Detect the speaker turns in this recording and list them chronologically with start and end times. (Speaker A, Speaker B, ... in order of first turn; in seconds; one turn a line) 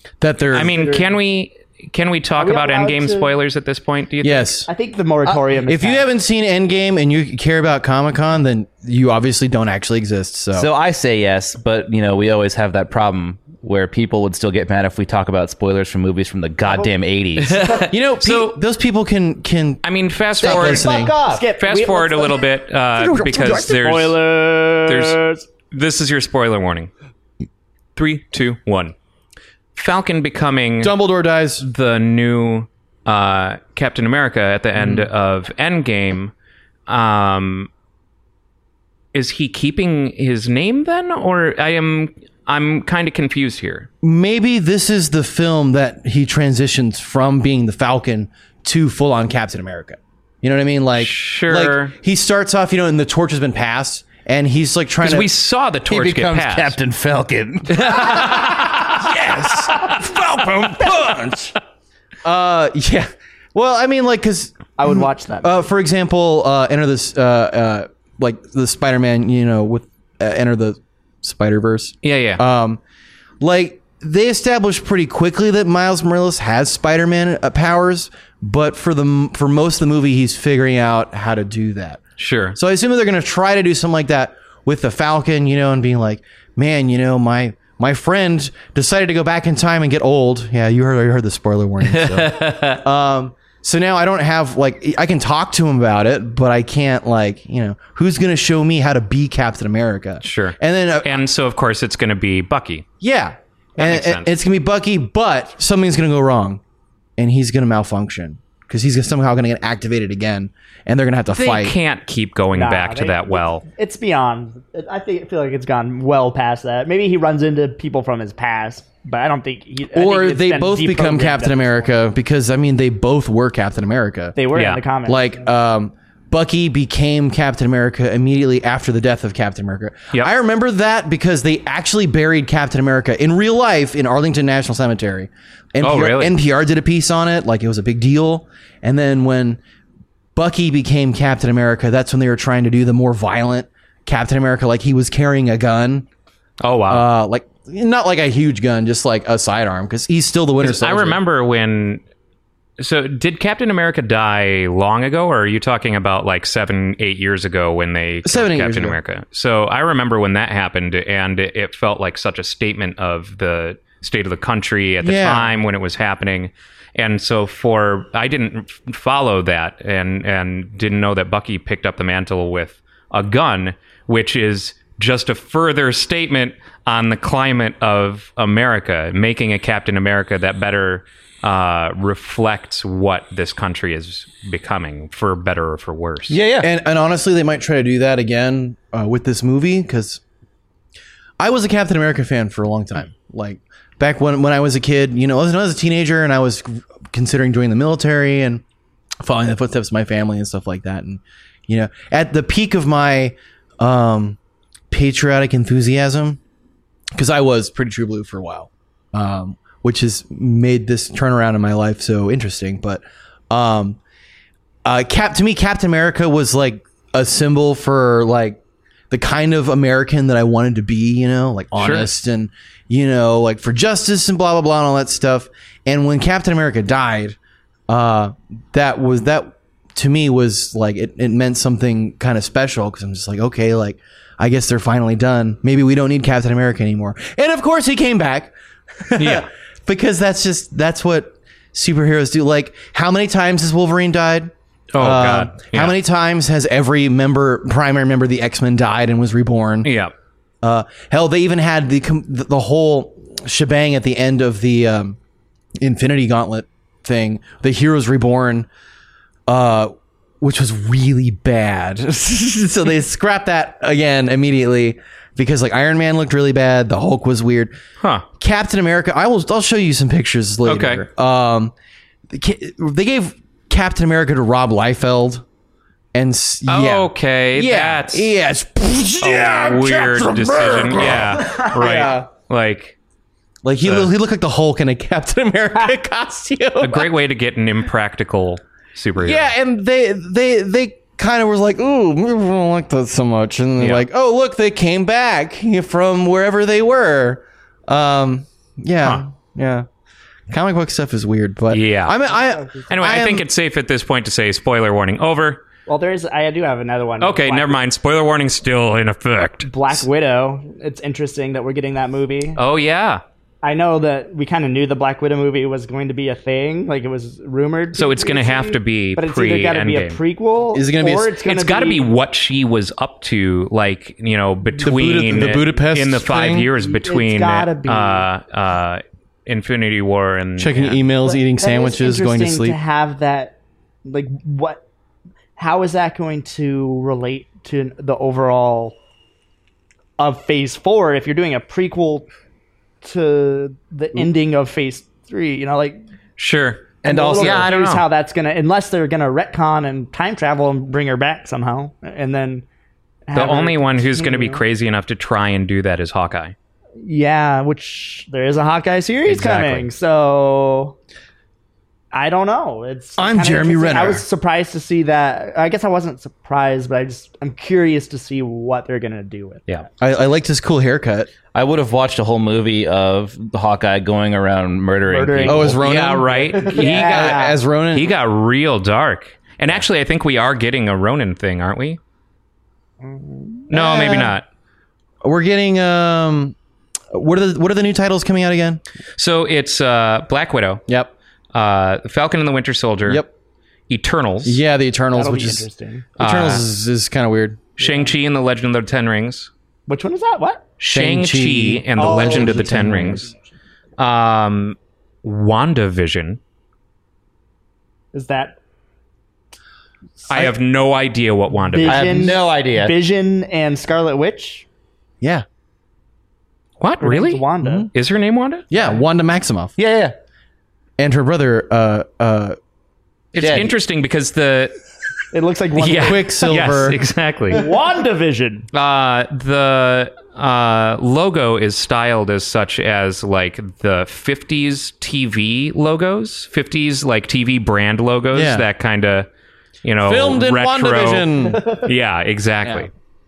Speaker A: 0.2-0.8
Speaker B: 0.5-4.5
Speaker C: 0.6-1.1
Speaker C: 2.4-3.3
Speaker A: 4.2-4.7
Speaker C: 4.7-6.1
Speaker A: 5.7-10.7
Speaker D: 10.6-17.7
Speaker C: 16.7-16.9
Speaker B: 17.4-18.6
Speaker C: 17.6-17.9
Speaker A: 17.9-19.8
Speaker B: 19.8-24.2
Speaker A: 20.4-21.2
Speaker C: 20.4-22.4
Speaker A: 23.0-24.0
Speaker C: 23.6-25.5
Speaker B: 24.9-26.9
Speaker B: 28.0-28.9
Speaker B: 29.8-31.0
Speaker A: 30.8-31.7
Speaker B: 31.6-36.3
Speaker A: 34.8-35.1
Speaker B: 36.9-37.7
Speaker B: 39.1-43.9
Speaker A: 44.0-55.3
Speaker B: 51.0-51.9
Speaker B: 55.0-56.8
Speaker D: 55.9-57.9
Speaker B: 57.8-61.2
Speaker A: 57.8-61.6
Speaker A: 62.2-72.8
Speaker C: 64.8-65.7
Speaker B: 72.0-72.4
Speaker A: 73.4-82.0
Speaker B: 82.2-82.6
Speaker A: 82.5-101.2
Speaker B: 91.8-92.8
Speaker B: 100.2-102.9
Speaker A: 103.0-106.6
Speaker B: 103.8-104.3
Speaker A: 107.2-111.8
Speaker B: 111.3-113.7
Speaker C: 112.5-122.0
Speaker A: 119.9-124.4
Speaker C: 124.4-125.5
Speaker B: 124.5-124.8
Speaker A: 125.0-139.6
Speaker B: 135.8-136.3
Speaker A: 140.3-146.1
Speaker B: 146.6-147.1
Speaker A: 146.9-151.2
Speaker B: 150.6-152.0
Speaker B: 152.8-186.4
Speaker A: 158.2-159.0
Speaker A: 165.0-165.5
Speaker D: 186.3-186.7
Speaker A: 186.6-190.2
Speaker A: 191.4-198.6
Speaker A: 199.2-204.4
Speaker A: 204.9-206.4
Speaker A: 207.2-214.0
Speaker A: 214.8-218.6
Speaker A: 219.1-227.4
Speaker B: 221.8-222.1
Speaker A: 227.9-249.9
Speaker B: 239.2-239.5
Speaker B: 244.9-246.0
Speaker B: 249.8-250.1
Speaker A: 250.6-255.2
Speaker A: 255.8-258.7
Speaker A: 259.5-267.7
Speaker A: 268.4-271.7
Speaker B: 270.7-271.0
Speaker A: 272.3-275.4
Speaker A: 276.1-282.3
Speaker B: 276.7-278.3
Speaker B: 279.2-283.0
Speaker A: 283.6-287.1
Speaker B: 283.8-284.1
Speaker B: 286.8-289.5
Speaker A: 289.2-299.9
Speaker B: 293.8-294.1
Speaker A: 300.5-303.5
Speaker B: 301.7-302.2
Speaker C: 302.3-302.9
Speaker B: 302.9-305.6
Speaker C: 305.9-307.7
Speaker B: 307.2-309.7
Speaker C: 309.6-312.6
Speaker B: 312.6-313.2
Speaker C: 313.6-322.1
Speaker B: 317.9-320.2
Speaker A: 320.7-321.3
Speaker B: 321.5-331.0
Speaker A: 324.8-326.7
Speaker C: 326.8-328.3
Speaker A: 330.6-332.8
Speaker C: 331.2-334.8
Speaker C: 335.6-339.0
Speaker C: 340.2-342.3
Speaker C: 343.0-346.0
Speaker B: 346.4-348.1
Speaker C: 347.0-352.6
Speaker D: 347.1-347.7
Speaker C: 353.3-354.6
Speaker B: 353.4-356.6
Speaker C: 357.0-361.0
Speaker B: 359.3-359.9
Speaker C: 362.1-369.7
Speaker A: 363.2-364.2
Speaker A: 370.0-371.3
Speaker D: 371.5-375.8
Speaker C: 375.1-377.6
Speaker A: 375.4-378.1
Speaker B: 375.8-382.0
Speaker C: 383.0-383.7
Speaker B: 383.7-384.4
Speaker A: 383.7-384.4
Speaker A: 385.2-386.6
Speaker A: 387.1-388.8
Speaker B: 389.2-390.8
Speaker B: 391.5-393.3
Speaker B: 393.9-394.6
Speaker A: 394.4-395.7
Speaker C: 395.1-396.1
Speaker A: 396.2-397.6
Speaker B: 396.2-396.7
Speaker B: 397.8-399.5
Speaker C: 397.8-398.1
Speaker C: 399.9-400.6
Speaker B: 400.8-403.3
Speaker A: 400.9-403.3
Speaker C: 402.0-403.4
Speaker B: 404.0-406.4
Speaker C: 408.1-408.6
Speaker B: 410.3-412.3
Speaker C: 411.7-414.7
Speaker D: 411.9-413.0
Speaker B: 416.8-418.7
Speaker C: 417.0-417.9
Speaker A: 417.6-417.9
Speaker A: 418.7-419.7
Speaker D: 419.8-420.1
Speaker A: 421.0-422.6
Speaker B: 423.3-424.8
Speaker D: 423.4-423.7
Speaker C: 425.3-426.5
Speaker B: 425.8-427.6
Speaker A: 425.9-427.0
Speaker C: 427.5-428.7
Speaker B: 428.7-439.3
Speaker A: 438.3-438.7
Speaker B: 439.8-442.9
Speaker A: 440.0-441.7
Speaker C: 441.5-441.8
Speaker A: 442.6-442.9